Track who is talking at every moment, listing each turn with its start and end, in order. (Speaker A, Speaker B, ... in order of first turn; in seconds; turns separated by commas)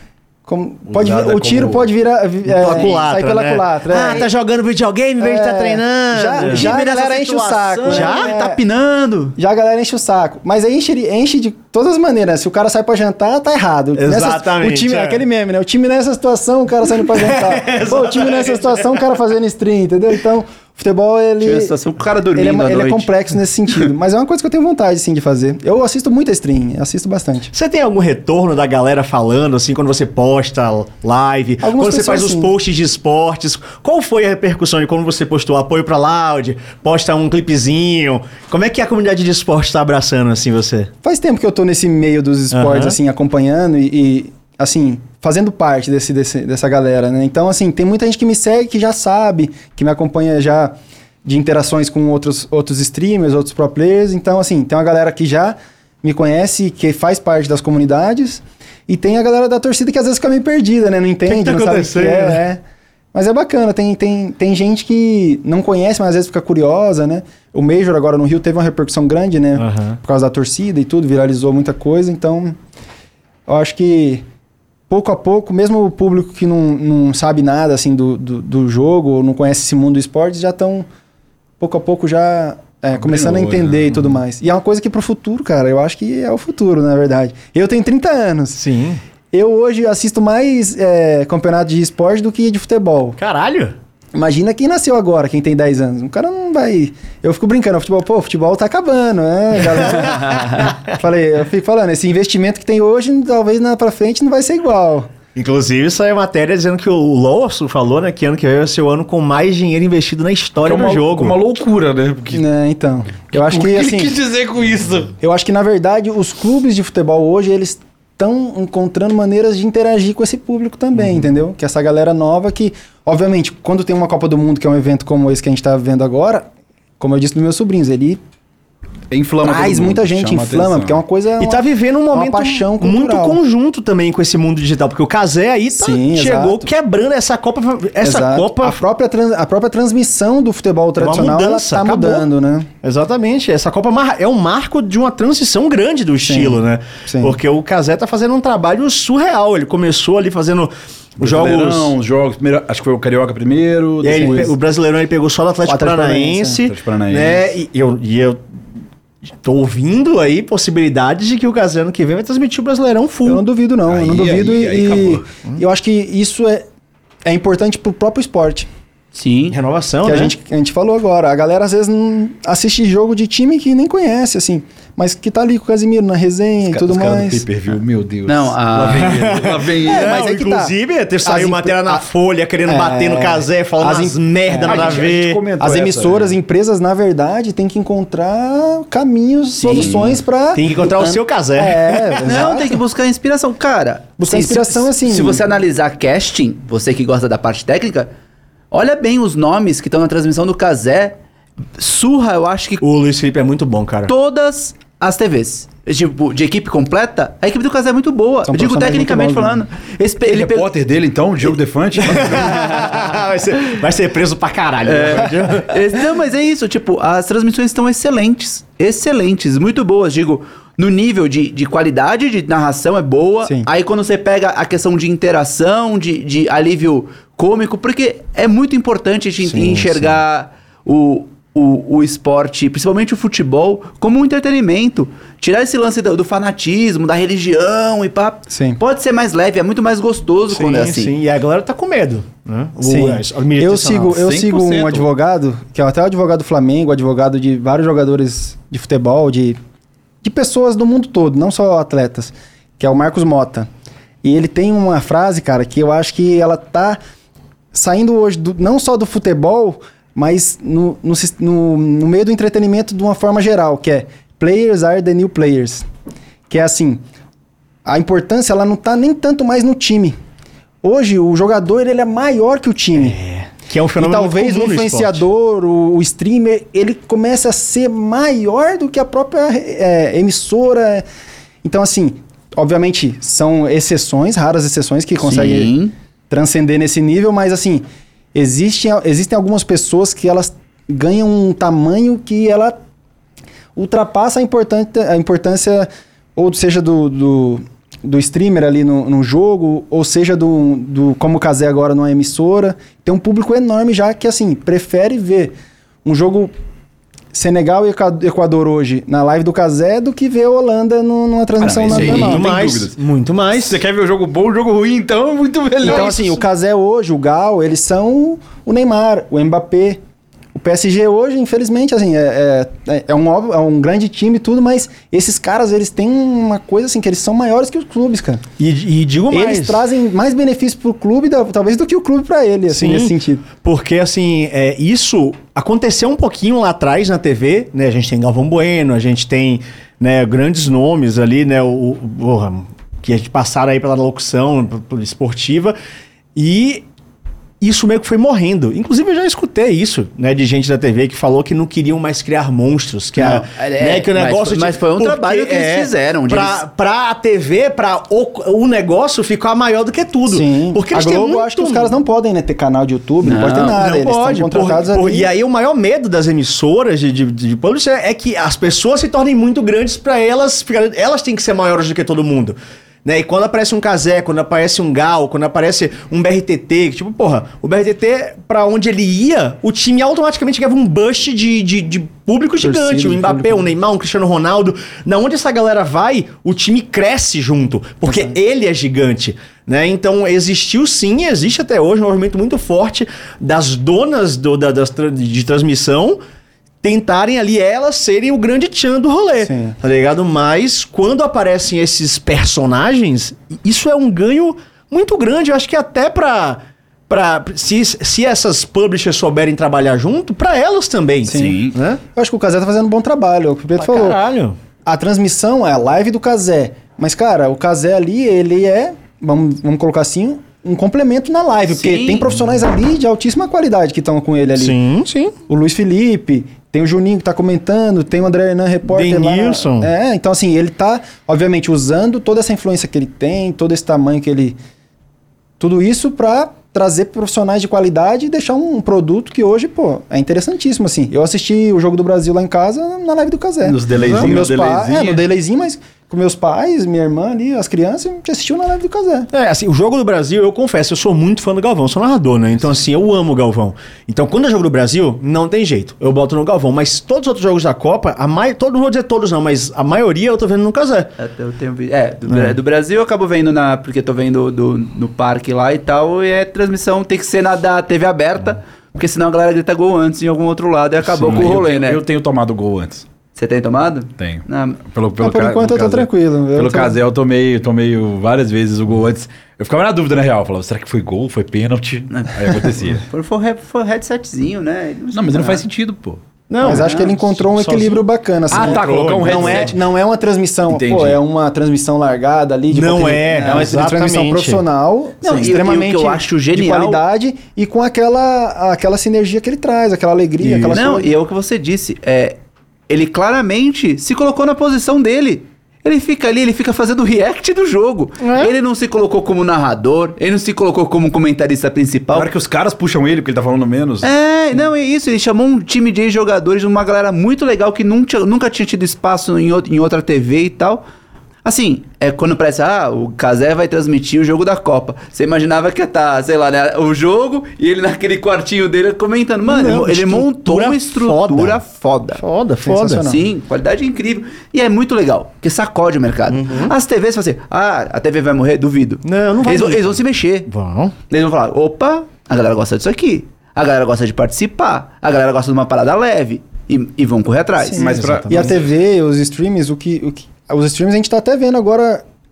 Speaker A: 0.5-4.3, Speaker B: 0.9-1.9, Speaker C: 2.5-8.3, Speaker A: 5.2-8.6, Speaker D: 6.5-7.0, Speaker D: 7.8-9.3, Speaker A: 9.3-21.7, Speaker C: 13.9-15.2, Speaker C: 17.0-19.0, Speaker D: 21.4-23.1, Speaker A: 22.3-27.5, Speaker C: 27.5-40.9, Speaker A: 31.6-32.5, Speaker A: 41.0-62.6, Speaker C: 42.5-43.0, Speaker C: 61.2-62.4, Speaker A: 63.1-72.6, Speaker C: 69.6-70.0, Speaker A: 73.5-74.2, Speaker A: 74.9-80.9, Speaker A: 81.6-88.6, Speaker B: 83.0-84.1, Speaker C: 88.5-89.0, Speaker A: 89.3-93.2, Speaker C: 93.2-93.7, Speaker A: 94.1-105.1, Speaker C: 99.7-100.8, Speaker C: 105.3-111.4, Speaker B: 110.6-112.5, Speaker A: 112.3-114.1, Speaker B: 113.3-115.1, Speaker A: 115.2-126.5, Speaker A: 127.0-128.2, Speaker B: 129.1-131.0, Speaker A: 129.4-133.4, Speaker C: 131.4-138.8, Speaker A: 135.7-136.7, Speaker A: 138.0-142.7, Speaker C: 141.0-142.3, Speaker C: 142.8-151.9, Speaker A: 146.2-147.4, Speaker B: 151.2-154.5, Speaker C: 154.0-158.4, Speaker A: 154.1-154.5, Speaker A: 155.7-156.6, Speaker B: 156.7-157.5, Speaker C: 159.4-163.4, Speaker A: 163.2-166.7, Speaker B: 163.8-165.3, Speaker A: 167.2-168.7, Speaker D: 169.1-169.6, Speaker C: 169.5-170.3, Speaker A: 170.0-177.4, Speaker B: 176.6-180.2, Speaker D: 178.2-179.2, Speaker C: 178.9-185.4, Speaker A: 179.8-180.7, Speaker A: 181.2-182.1, Speaker A: 182.6-185.1, Speaker B: 184.6-186.3, Speaker A: 185.6-192.8, Speaker D: 189.6-190.0, Speaker B: 189.8-190.1, Speaker C: 190.5-192.4, Speaker D: 192.2-198.1, Speaker A: 194.2-195.4, Speaker D: 198.7-201.2, Speaker D: 201.8-202.8, Speaker C: 202.8-204.1, Speaker D: 204.1-210.7, Speaker A: 208.4-209.6, Speaker B: 210.2-212.8, Speaker C: 212.0-215.7, Speaker D: 214.8-241.1, Speaker A: 238.5-238.8, Speaker C: 240.5-244.3, Speaker A: 242.8-249.6, Speaker B: 244.1-245.1, Speaker A: 250.2-253.7, Speaker A: 254.2-257.0, Speaker A: 257.7-265.9, Speaker A: 266.5-267.0, Speaker A: 267.8-270.1, Speaker A: 270.8-273.2, Speaker C: 272.9-275.2, Speaker A: 274.0-281.0, Speaker A: 281.6-285.7, Speaker D: 285.2-285.9, Speaker A: 286.3-292.8, Speaker A: 293.7-305.5, Speaker A: 306.0-306.5, Speaker A: 307.3-312.4, Speaker B: 311.6-312.9, Speaker C: 311.9-313.8, Speaker B: 313.5-316.4, Speaker A: 315.8-320.0, Speaker A: 320.5-328.4, Speaker C: 328.6-329.8, Speaker A: 329.3-333.4, Speaker C: 332.7-345.8, Speaker C: 346.3-346.9, Speaker C: 347.6-361.9, Speaker D: 353.1-356.6, Speaker A: 360.3-365.3, Speaker D: 363.2-363.8, Speaker C: 363.7-396.2, Speaker A: 382.6-383.7, Speaker A: 388.0-388.4, Speaker C: 396.8-412.0, Speaker A: 399.4-399.7, Speaker A: 411.3-411.6, Speaker B: 411.3-411.8, Speaker A: 412.1-414.2, Speaker C: 413.8-414.6, Speaker A: 414.8-424.8, Speaker D: 421.8-422.2, Speaker C: 424.6-425.3, Speaker A: 425.5-434.6, Speaker C: 428.9-429.9, Speaker A: 435.6-449.3, Speaker B: 443.6-445.2, Speaker C: 444.0-444.3, Speaker C: 449.3-461.1, Speaker D: 461.2-472.0, Speaker C: 462.3-462.5, Speaker B: 471.0-473.0, Speaker D: 473.3-474.8, Speaker B: 474.2-483.0, Speaker A: 475.2-476.9, Speaker D: 482.1-485.6, Speaker B: 485.1-486.2, Speaker C: 486.5-489.7, Speaker A: 486.6-501.1, Speaker D: 486.6-487.1, Speaker B: 488.5-489.8, Speaker B: 490.7-491.2, Speaker C: 492.7-494.6, Speaker B: 495.2-495.5, Speaker D: 495.3-497.0, Speaker C: 500.4-500.8, Speaker D: 500.7-512.3, Speaker C: 508.2-508.5, Speaker B: 512.1-514.1, Speaker D: 514.0-520.8, Speaker D: 521.4-532.2, Speaker C: 529.4-531.6, Speaker C: 532.1-533.1, Speaker A: 532.6-533.2, Speaker D: 533.0-540.5, Speaker C: 536.3-536.7, Speaker C: 539.0-540.9, Speaker D: 541.1-547.9, Speaker A: 547.6-552.0, Speaker B: 547.7-548.7, Speaker C: 547.8-548.6